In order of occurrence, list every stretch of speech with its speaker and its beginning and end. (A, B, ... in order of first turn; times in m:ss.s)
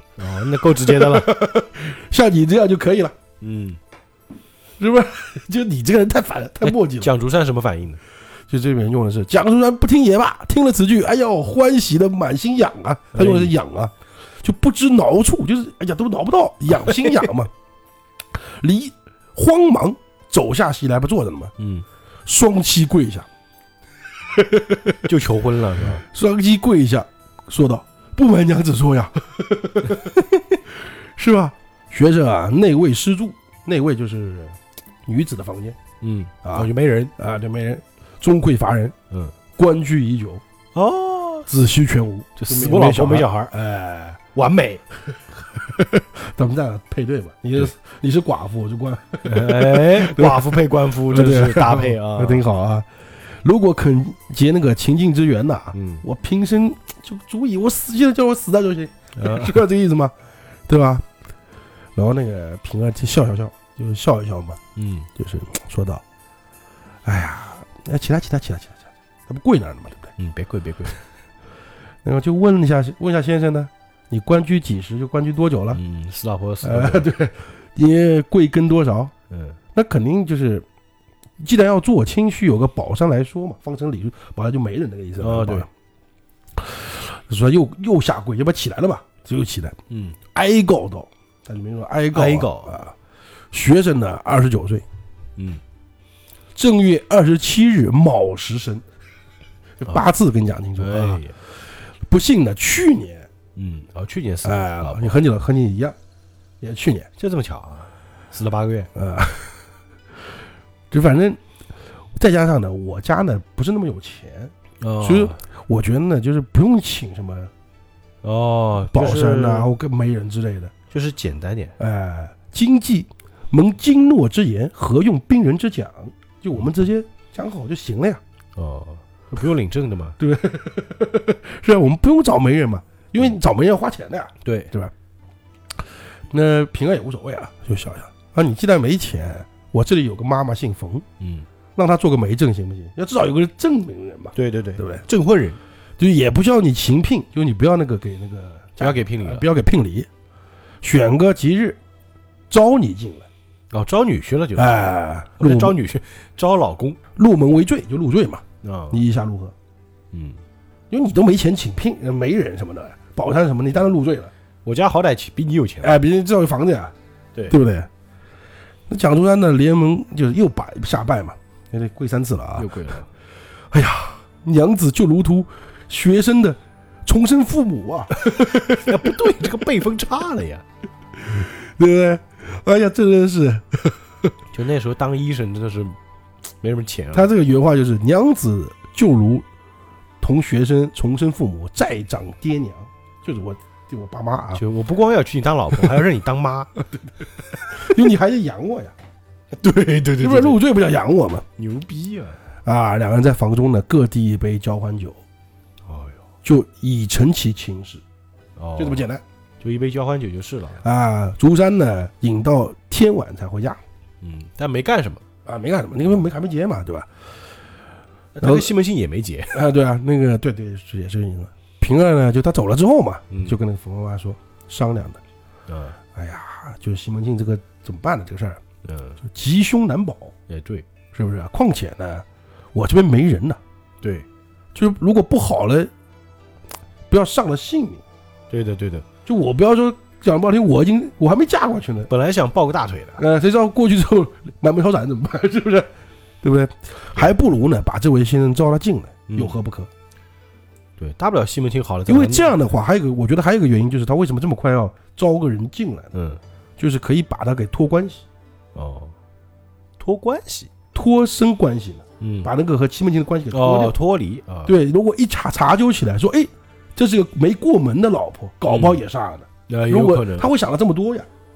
0:00.2-0:01.3 A
0:00.7-0:03.1 B
0:03.4-0:03.8 A
0:04.8-0:07.1 B
0:06.6-0:08.0 A
0:08.5-0:17.5 B
0:13.1-0:13.5 A
0:16.8-0:17.2 A
0:18.3-0:21.5 B
0:21.6-0:21.8 A
0:22.2-0:23.3 B
0:24.3-0:25.0 B
0:25.0-0:26.0 A
0:25.9-0:35.8 B
0:36.0-0:37.1 A
0:36.4-0:38.9 B
0:39.6-0:40.4 B
0:40.7-0:41.5 A
0:41.5-0:44.2 B
0:42.4-0:43.5 A
0:44.3-0:44.8 A
0:45.0-1:00.1 B
0:49.2-0:52.4 A
0:55.7-0:56.0 A
0:59.2-0:59.6 A
1:00.7-1:01.1 B
1:01.9-1:04.6 B
1:04.7-1:05.1 A
1:05.2-1:06.0 B
1:07.0-1:10.1 B
1:10.2-1:11.0 A
1:12.0-1:15.8 B
1:15.7-1:17.1 A
1:16.6-1:19.1 B
1:19.3-1:19.6 A
1:19.7-1:20.6 B
1:21.4-1:25.7 B
1:25.2-1:25.7 A
1:26.5-1:29.8 B
1:29.9-1:30.2 A
1:30.3-1:32.9 B
1:32.1-1:32.8 A
1:33.5-1:34.8 B
1:35.4-1:35.6 A
1:36.5-1:38.8 B
1:39.8-1:43.3 B
1:40.8-1:41.3 A
1:43.5-1:45.2 A
1:44.4-1:46.0 B
1:46.6-1:47.1 B
1:47.2-1:48.9 A
1:48.9-1:49.6 B
1:50.9-1:51.4 B
1:52.2-1:57.5 B
1:54.8-1:55.4 A
1:58.2-1:59.7 A
1:58.9-2:00.7 B
2:00.9-2:01.8 A
2:01.8-2:08.2 B
2:08.6-2:10.2 A
2:10.2-2:14.9 B
2:14.4-2:14.7 A
2:16.3-2:21.0 B
2:21.2-2:21.4 A
2:21.8-2:25.0 B
2:24.4-2:25.6 A
2:26.0-2:30.1 B
2:28.8-2:29.5 A
2:30.8-2:31.8 B
2:32.5-2:33.3 B
2:33.7-2:34.7 A
2:34.6-2:35.8 B
2:35.4-2:37.0 A
2:37.2-2:39.5 B
2:38.6-2:39.0 A
2:40.1-2:40.4 A
2:40.9-2:44.3 B
2:44.6-2:46.0 A
2:45.8-2:46.9 B
2:47.5-2:47.9 B
2:48.9-2:52.7 B
2:52.6-2:53.1 A
2:53.7-2:59.1 B
2:58.7-3:00.6 A
3:01.2-3:04.3 B
3:04.5-3:06.0 A
3:06.6-3:07.3 A
3:07.1-3:09.4 B
3:10.2-3:14.6 B
3:14.5-3:16.7 A
3:17.7-3:18.9 B
3:19.5-3:20.6 A
3:20.2-3:21.4 B
3:21.6-3:22.4 A
3:22.6-3:25.2 B
3:25.9-3:26.2 A
3:26.4-3:28.0 B
3:28.6-3:29.0 A
3:28.8-3:29.2 B
3:29.6-3:30.8 A
3:30.8-3:33.8 B
3:34.2-3:35.2 A
3:35.4-3:37.1 B
3:38.3-3:39.6 A
3:38.4-3:38.7 B
3:39.5-3:45.2 B
3:43.3-3:43.6 A
3:45.7-3:46.0 A
3:46.1-3:48.6 B
3:48.8-3:49.2 A
3:49.2-3:50.3 B
3:50.5-3:50.8 A
3:51.1-3:53.6 B
3:54.7-3:55.9 B
3:57.1-3:58.0 B
3:58.5-3:59.0 A
3:59.2-4:02.1 B
4:02.1-4:03.2 A
4:03.2-4:05.9 B
4:06.4-4:09.9 B
4:09.3-4:09.6 A
4:11.0-4:12.6 A
4:12.1-4:16.1 B
4:16.1-4:16.4 A
4:16.8-4:18.2 B
4:18.7-4:19.1 A
4:20.0-4:20.7 A
4:20.9-4:24.0 B
4:22.2-4:22.5 A
4:23.5-4:24.8 A
4:24.6-4:31.3 B
4:28.7-4:29.0 A
4:29.7-4:30.5 A